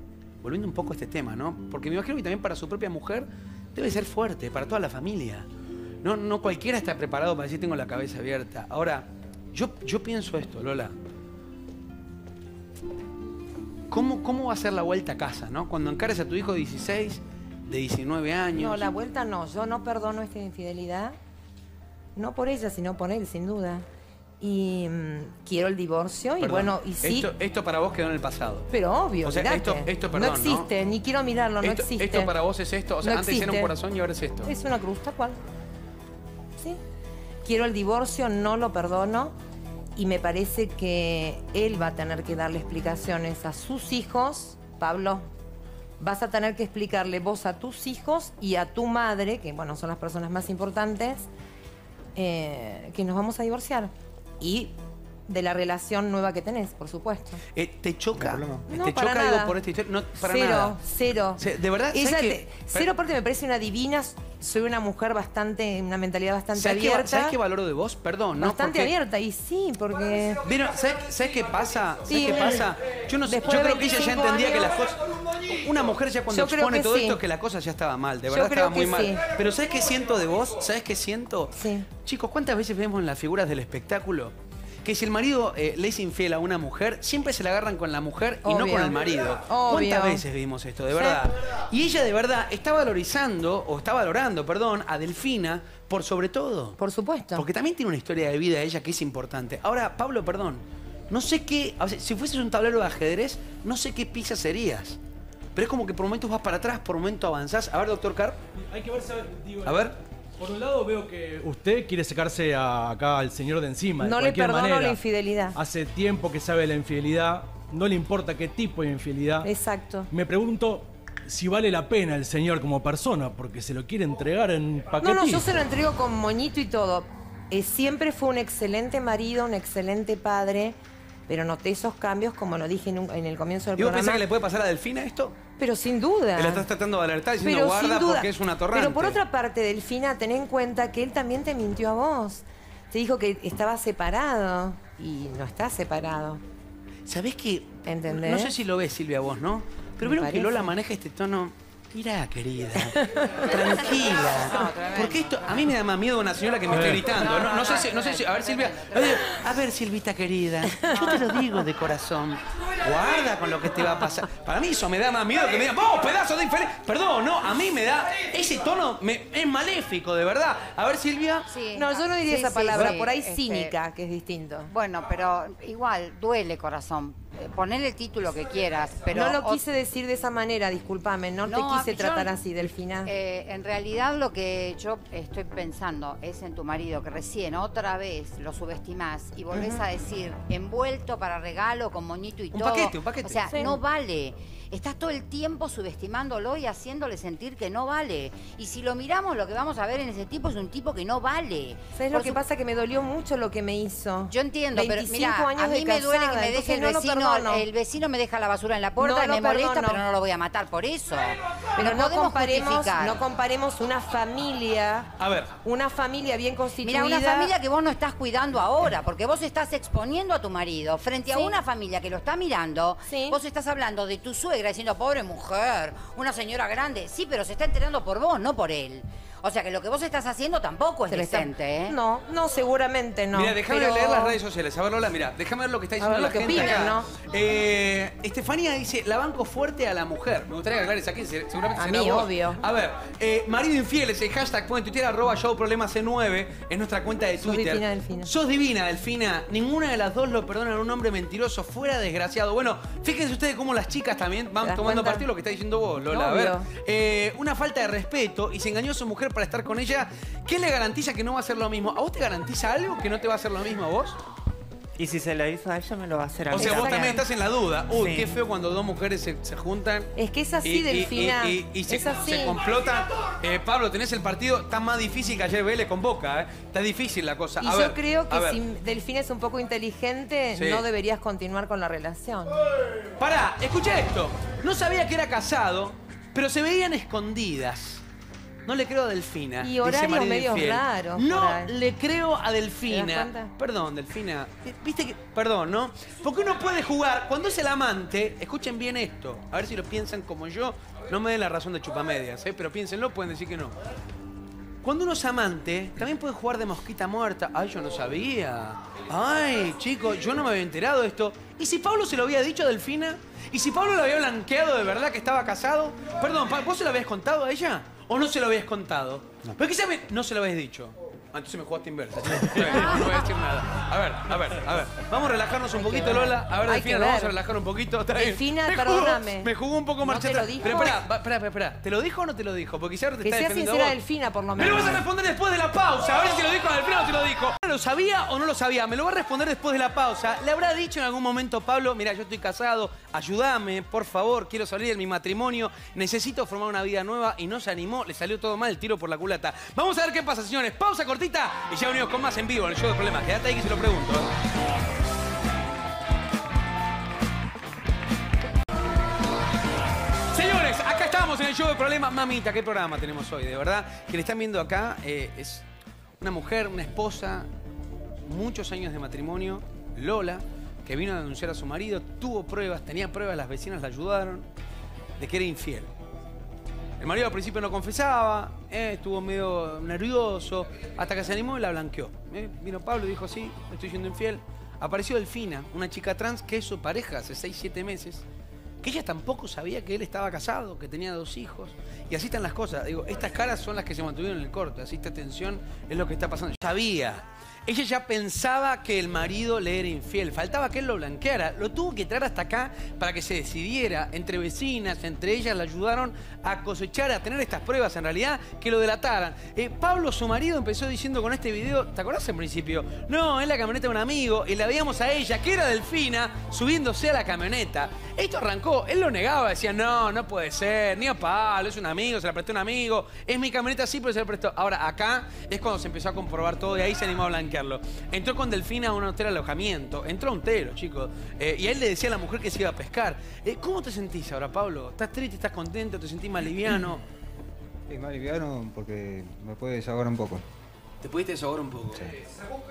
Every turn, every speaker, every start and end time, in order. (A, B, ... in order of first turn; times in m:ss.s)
0:00.4-0:05.5 A
0:06.0-0:11.0 A
0:13.9-0:18.9 A
0:18.5-0:21.2 B
0:22.2-0:23.9 B
0:24.4-0:27.3 B
0:26.4-0:28.7 A
0:28.7-0:32.3 B
0:29.2-0:30.7 A
0:31.6-0:34.5 A
0:33.0-0:33.7 B
0:34.4-0:35.4 B
0:37.4-0:39.4 B
0:40.0-0:45.3 B
0:46.0-0:51.3 B
0:52.2-0:54.7 B
0:55.3-0:57.4 B
0:57.5-1:00.8 A
0:58.2-0:58.6 C
0:58.7-0:59.6 B
1:00.2-1:01.4 B
1:01.4-1:02.9 A
1:01.9-1:07.4 B
1:06.6-1:08.9 A
1:08.4-1:10.4 B
1:10.4-1:36.8 A
1:12.1-1:12.7 B
1:13.3-1:14.7 B
1:16.3-1:17.2 B
1:18.3-1:19.3 B
1:21.5-1:21.9 B
1:28.4-1:30.2 B
1:30.9-1:31.2 B
1:36.8-1:37.5 B
1:37.4-1:45.0 A
1:45.6-1:48.4 A
1:48.6-1:55.0 D
1:49.6-1:50.0 A
1:54.0-1:55.6 B
1:55.5-1:59.5 D
1:59.4-2:00.1 B
2:00.1-2:05.6 D
2:05.0-2:10.8 B
2:11.3-2:14.2 B
2:13.8-2:15.4 A
2:15.6-2:16.7 B
2:16.4-2:19.2 A
2:17.4-2:26.4 B
2:27.1-2:51.5 A
2:27.8-2:28.6 B
2:30.0-2:30.7 B
2:32.9-2:33.5 B
2:34.3-2:35.7 E
2:36.7-2:37.0 D
2:37.0-2:39.3 E
2:40.7-2:41.0 B
2:51.5-2:53.7 E
2:51.7-2:54.7 B
2:54.7-2:59.6 E
2:59.1-3:03.1 B
3:01.4-3:02.4 E
3:03.0-3:22.4 E
3:12.5-3:13.5 A
3:13.5-3:13.8 B
3:22.0-3:27.7 B
3:24.3-3:33.2 E
3:29.0-3:30.0 B
3:31.8-3:35.1 B
3:35.2-3:35.5 A
3:35.6-3:37.5 B
3:36.8-3:52.0 E
3:41.3-3:41.6 B
3:43.1-3:43.4 B
3:51.1-3:54.4 B
3:53.3-4:24.2 A
3:56.0-3:57.1 B
4:01.8-4:02.6 B
4:07.4-4:08.3 B
4:14.6-4:15.3 B
4:16.1-4:16.7 B
4:25.0-4:27.2 F
4:26.5-4:30.1 A
4:26.6-4:27.2 B
4:27.9-4:28.4 F
4:30.2-4:32.6 B
4:30.6-4:38.6 A
4:37.6-4:42.6 B
4:40.6-4:40.8 A
4:43.2-4:48.0 A
4:48.7-5:03.8 A
4:49.6-4:51.7 B
4:52.9-4:53.5 B
5:04.8-5:34.0 A
5:25.8-5:27.4 B
5:28.2-5:31.0 B
5:33.2-5:35.1 B
5:34.6-5:54.3 A
6:00.3-6:05.6 A
6:06.2-6:07.5 A
6:08.3-6:14.5 A
6:15.2-6:15.9 A
6:17.0-6:28.2 A
6:28.8-7:17.0 A
7:17.9-7:20.4 C
7:21.0-7:22.2 A